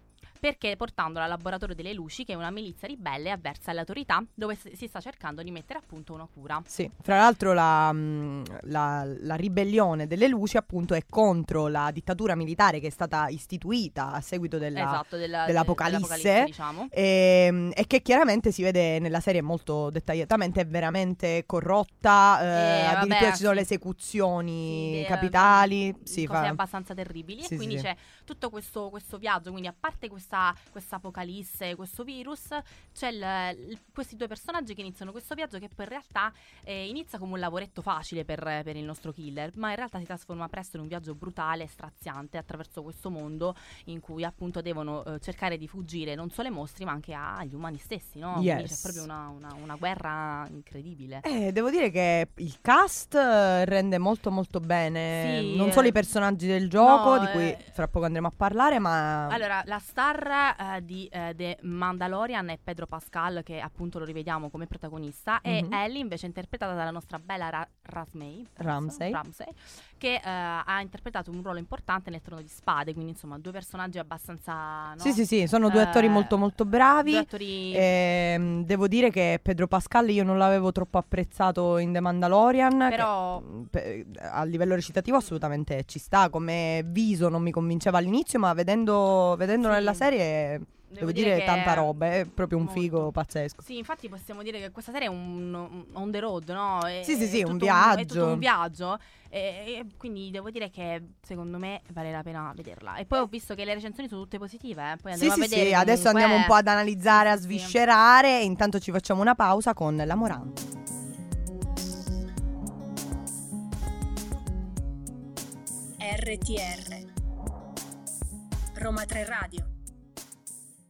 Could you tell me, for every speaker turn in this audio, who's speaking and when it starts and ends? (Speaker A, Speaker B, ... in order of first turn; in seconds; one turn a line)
Speaker A: 0.4-6.7
Speaker B: 6.7-26.6
Speaker A: 14.8-16.9
Speaker A: 22.5-23.7
Speaker A: 24.7-51.2
Speaker B: 27.4-27.9
Speaker B: 48.3-49.0
Speaker B: 51.2-59.4
Speaker A: 55.1-55.9
Speaker A: 56.8-57.6
Speaker A: 59.3-76.3
Speaker B: 65.5-65.8
Speaker B: 68.6-69.2
Speaker B: 75.0-93.6
Speaker A: 77.0-77.9
Speaker A: 82.9-83.5
Speaker A: 89.6-90.1
Speaker A: 90.9-107.8
Speaker B: 97.0-98.5
Speaker B: 105.2-110.6
Speaker C: 116.0-117.1
Speaker C: 118.8-119.7